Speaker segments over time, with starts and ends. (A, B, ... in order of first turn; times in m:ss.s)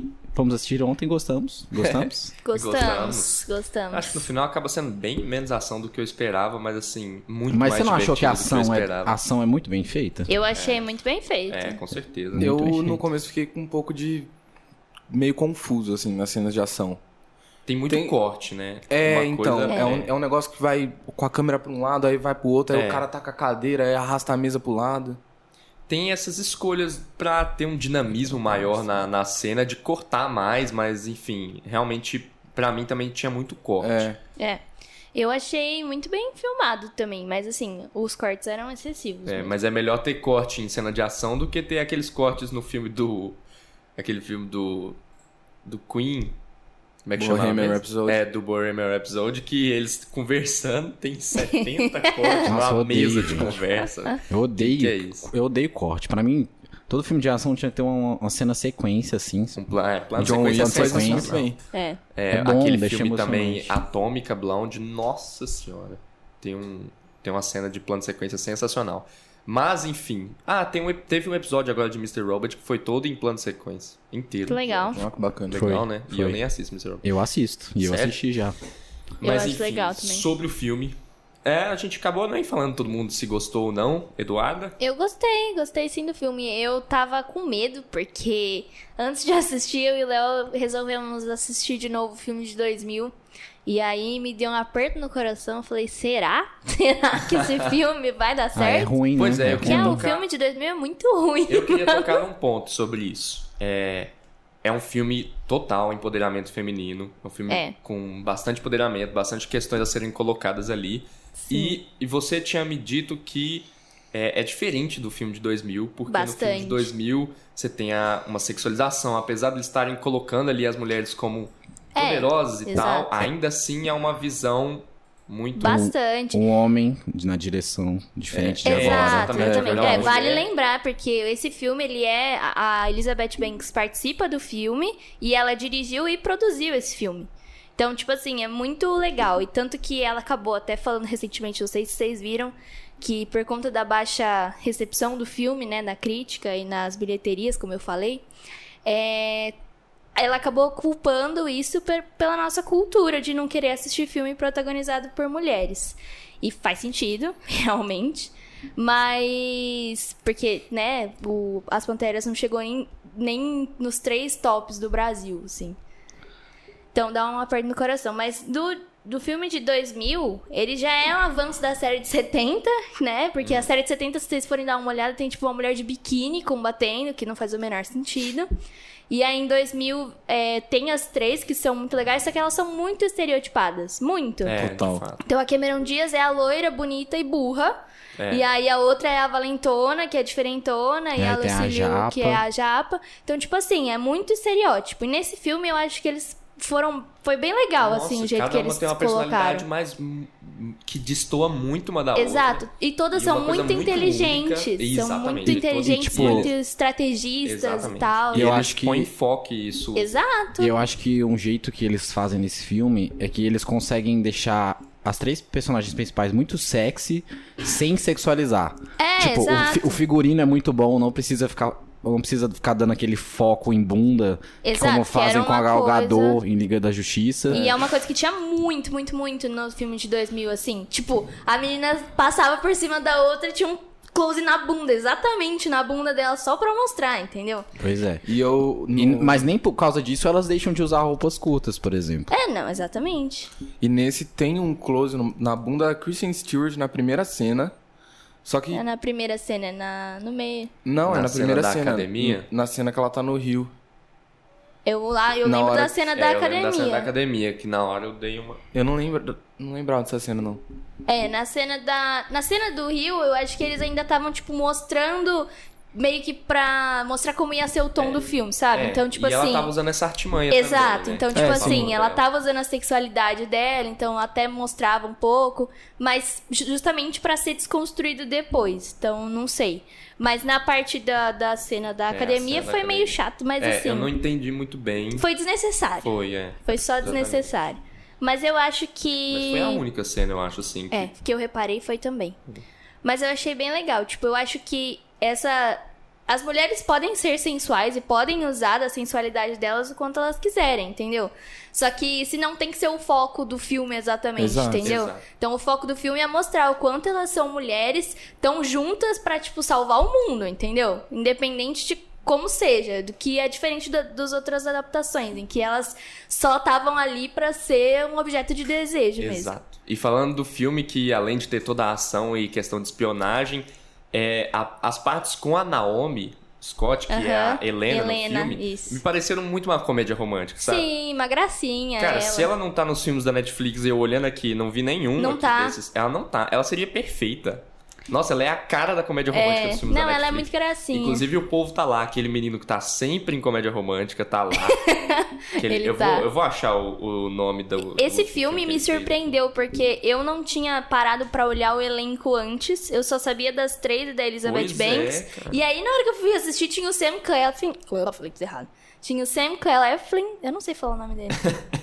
0:00.3-0:02.3 A
0:01.8-0:09.2 B
0:02.4-0:04.2 C
0:07.5-0:10.3 A
0:10.3-0:11.8 C
0:10.5-0:10.9 B
0:11.5-0:12.5 B
0:12.3-0:13.0 A
0:12.4-0:14.3 D
0:15.1-0:17.0 D
0:17.7-0:20.1 B
0:17.9-0:18.2 D
0:18.9-0:25.2 D
0:19.7-0:20.0 C
0:22.7-0:23.1 B
0:25.9-0:34.1 B
0:28.5-0:28.9 D
0:33.8-0:34.2 D
0:35.1-0:39.5 C
0:39.2-0:43.4 B
0:44.0-0:45.0 B
0:45.6-0:46.4 B
0:47.0-0:55.3 B
0:47.2-0:48.2 D
0:51.4-0:52.4 C
0:52.4-0:53.6 A
0:54.3-0:59.6 A
0:59.5-1:01.5 B
1:00.2-1:01.3 A
1:00.2-1:01.6 D
1:01.7-1:02.0 C
1:02.1-1:14.9 B
1:02.3-1:03.8 A
1:14.5-1:15.0 C
1:14.9-1:15.6 D
1:15.5-1:17.0 B
1:15.5-1:16.4 A
1:17.0-1:18.6 A
1:17.8-1:18.2 B
1:19.2-1:24.8 B
1:19.2-1:20.2 C
1:24.8-1:33.1 C
1:33.6-1:42.2 C
1:38.5-1:40.0 A
1:39.2-1:40.2 B
1:41.5-1:44.1 B
1:44.6-2:05.8 B
1:47.5-1:47.7 C
1:51.4-1:51.8 C
1:56.1-1:56.9 C
2:02.0-2:03.2 C
2:05.5-2:06.4 C
2:05.6-2:09.5 A
2:08.3-2:10.4 B
2:08.6-2:28.2 C
2:09.4-2:10.1 D
2:28.8-2:29.5 C
2:30.2-2:45.8 C
2:46.9-2:58.5 C
2:59.1-3:04.6 C
3:04.4-3:05.2 B
3:04.6-3:05.0 D
3:05.2-3:07.8 C
3:08.2-3:08.4 B
3:08.3-3:19.6 C
3:11.2-3:12.4 A
3:17.8-3:26.5 B
3:22.1-3:28.6 C
3:25.5-3:26.5 A
3:27.4-3:30.1 B
3:28.3-3:29.1 A
3:29.9-3:30.8 C
3:30.6-3:47.6 A
3:39.0-3:40.0 C
3:44.6-3:46.4 C
3:47.5-3:57.7 C
3:57.8-3:58.2 A
3:58.2-3:59.4 D
3:58.9-4:02.3 A
4:02.3-4:03.5 C
4:03.8-4:07.7 D
4:08.4-4:08.8 D
4:08.7-4:10.7 C
4:10.8-4:13.7 D
4:11.1-4:12.4 B
4:14.8-4:17.1 C
4:15.4-4:16.0 D
4:16.1-4:18.6 B
4:18.7-4:20.6 D
4:21.1-4:29.7 C
4:28.7-4:32.2 B
4:30.5-4:44.1 C
4:31.3-4:31.9 D
4:42.1-4:45.2 B
4:45.2-4:46.1 C
4:46.0-4:47.5 B
4:46.6-4:49.8 C
4:49.3-4:51.1 B
4:50.9-4:52.4 C
4:53.0-5:19.5 C
5:04.4-5:04.9 D
5:04.8-5:05.2 B
5:19.2-5:30.9 B
5:27.1-5:29.0 C
5:30.6-5:32.5 C
5:32.0-5:44.8 B
5:35.2-5:35.8 C
5:39.3-5:41.2 C
5:44.6-5:46.3 C
5:45.6-5:49.3 B
5:47.9-6:01.5 C
5:54.4-5:55.6 B